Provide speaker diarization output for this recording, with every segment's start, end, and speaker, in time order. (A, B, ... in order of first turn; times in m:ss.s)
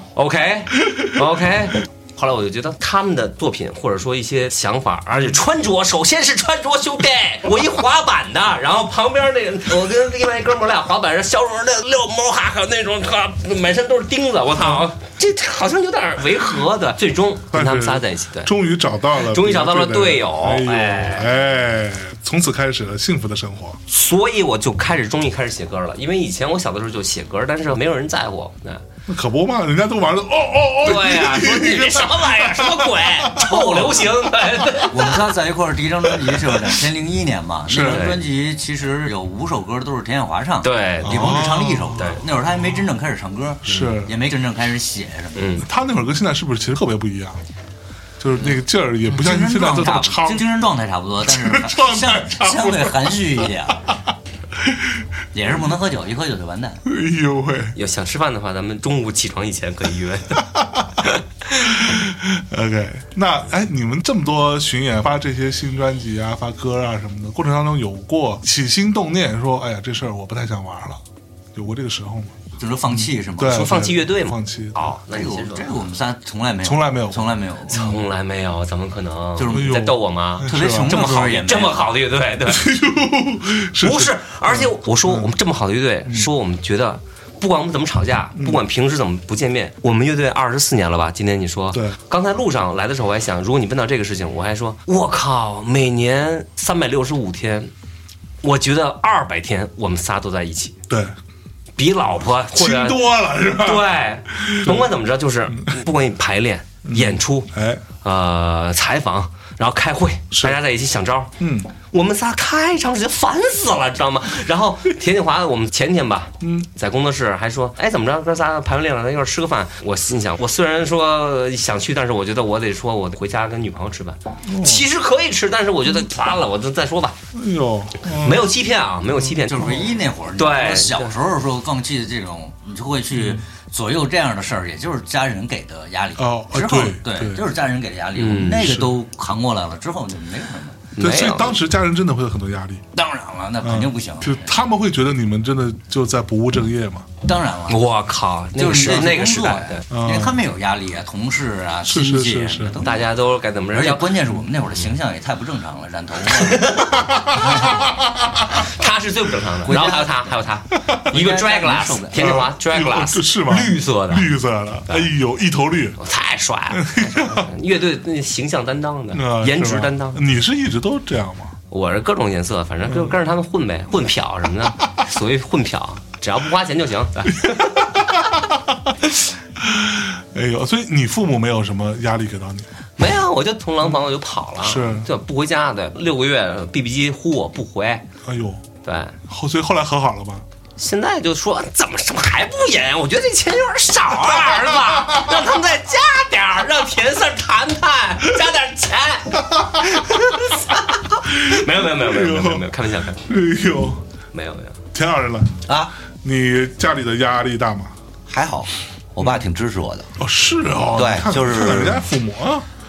0:00.1-0:18.5 A
0:14.6-0:14.8 B
0:17.5-0:23.8 B
0:19.2-0:21.3 A
0:23.9-0:28.8 A
0:29.1-0:33.6 B
0:30.8-0:35.2 A
0:33.4-0:34.0 C
0:34.8-0:45.4 C
0:37.7-0:38.1 B
0:37.8-0:38.2 A
0:40.6-0:42.2 A
0:41.0-0:42.1 B
0:43.6-0:44.1 B
0:45.4-0:45.6 A
0:45.6-0:47.4 B
0:48.2-0:50.5 B
0:48.4-0:53.8 C
0:51.2-0:53.2 B
0:54.6-0:55.0 B
0:55.3-0:56.8 C
0:56.8-0:57.7 B
0:57.7-1:01.8 A
1:01.6-1:11.0 B
1:11.5-1:12.4 B
1:12.6-1:13.7 C
1:12.9-1:14.9 B
1:13.4-1:15.8 A
1:15.1-1:17.8 C
1:16.6-1:18.0 B
1:17.7-1:22.7 A
1:19.4-1:19.8 C
1:19.5-1:21.3 B
1:20.4-1:21.9 C
1:22.5-1:25.3 B
1:23.8-1:37.7 A
1:28.4-1:28.6 B
1:38.4-1:40.7 A
1:40.9-1:41.1 B
1:41.8-1:47.5 A
1:42.5-1:44.9 B
1:46.8-1:47.8 B
1:48.0-1:51.3 A
1:50.3-1:50.6 B
1:51.4-1:51.7 B
1:51.9-2:07.1 A
1:56.4-1:56.7 B
2:04.4-2:04.8 B
2:07.3-2:08.5 B
2:08.1-2:11.1 A
2:09.4-2:20.8 C
2:16.2-2:17.4 B
2:18.2-2:18.7 A
2:18.6-2:18.9 B
2:21.0-2:21.6 A
2:21.0-2:22.8 B
2:22.9-2:24.5 C
2:23.6-2:27.1 B
2:27.2-2:27.8 C
2:27.7-2:29.8 A
2:28.6-2:33.1 C
2:29.9-2:30.4 B
2:31.8-2:32.8 B
2:32.8-2:34.2 A
2:33.7-2:36.7 C
2:36.3-2:37.6 A
2:36.9-2:38.6 B
2:37.4-2:37.8 C
2:38.5-2:44.3 A
2:39.6-2:40.4 C
2:41.1-2:42.4 C
2:42.1-2:46.0 B
2:46.0-2:50.2 A
2:46.7-2:47.5 B
2:49.1-2:51.5 B
2:51.7-2:57.9 A
2:52.9-2:53.1 B
2:57.4-2:58.9 B
2:59.6-3:02.7 B
3:03.0-3:08.0 A
3:04.6-3:05.1 B
3:08.2-3:08.6 B
3:08.8-3:09.1 A
3:09.3-3:10.4 B
3:10.8-3:23.2 A
3:19.5-3:20.0 B
3:21.3-3:22.7 B
3:23.2-3:24.0 B
3:24.3-3:24.8 A
3:24.9-3:25.6 B
3:25.6-3:25.9 D
3:26.2-3:27.9 B
3:28.3-3:30.1 D
3:30.2-3:32.6 B
3:30.9-3:32.0 D